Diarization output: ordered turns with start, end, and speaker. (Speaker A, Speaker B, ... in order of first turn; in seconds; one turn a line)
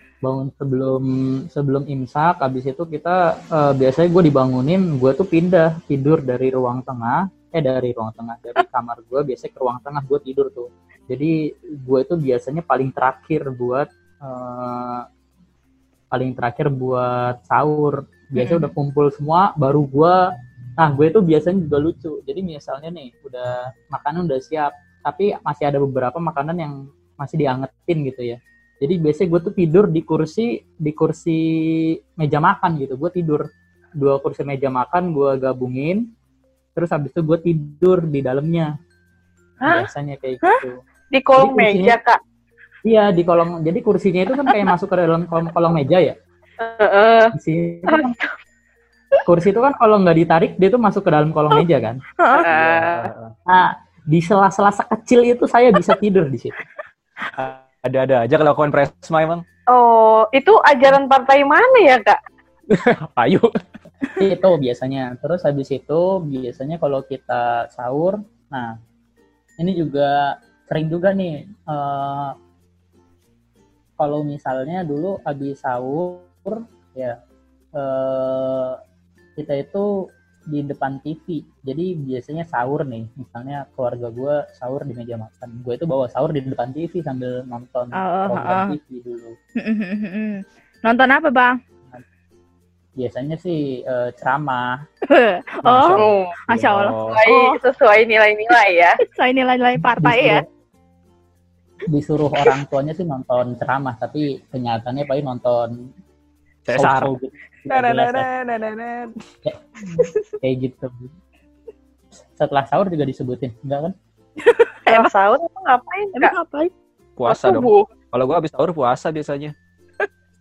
Speaker A: 0.2-11.3
Speaker A: 11.9-15.1
Speaker A: 16.1-20.2
Speaker B: 18.4-18.7
Speaker A: 20.8-31.4
Speaker A: 32.2-33.5
Speaker A: 34.0-36.0
Speaker A: 36.8-38.7
Speaker C: 39.6-39.9
Speaker A: 39.7-40.8
Speaker C: 41.1-42.2
Speaker A: 41.4-42.0
Speaker A: 42.9-46.1
Speaker C: 46.6-47.3
Speaker A: 47.3-48.2
Speaker C: 47.9-48.3
Speaker A: 49.3-52.0
Speaker B: 52.2-52.5
Speaker C: 52.4-53.1
Speaker D: 52.5-53.3
Speaker A: 53.5-56.6
Speaker D: 57.4-59.4
Speaker C: 59.7-62.2
Speaker D: 62.7-63.5
Speaker A: 64.2-68.7
Speaker A: 69.6-70.1
Speaker A: 70.7-72.3
Speaker A: 74.0-77.2
Speaker A: 77.8-78.8
Speaker A: 79.4-79.8
Speaker A: 80.5-89.3
Speaker B: 88.0-88.8
Speaker B: 89.6-91.6
Speaker A: 93.0-94.8
Speaker B: 95.1-97.6
Speaker A: 95.7-96.0
Speaker D: 95.7-97.2
Speaker C: 96.0-96.3
Speaker C: 97.1-98.9
Speaker B: 99.0-100.4
Speaker A: 99.8-100.4
Speaker A: 101.9-105.7
Speaker D: 106.7-107.1
Speaker A: 106.7-108.3
Speaker D: 107.7-109.1
Speaker A: 109.5-111.0
Speaker C: 109.9-110.2
Speaker A: 112.4-113.9
Speaker B: 114.4-115.1
Speaker C: 114.9-116.3
Speaker B: 116.2-116.7
Speaker D: 117.2-119.5
Speaker C: 117.3-117.9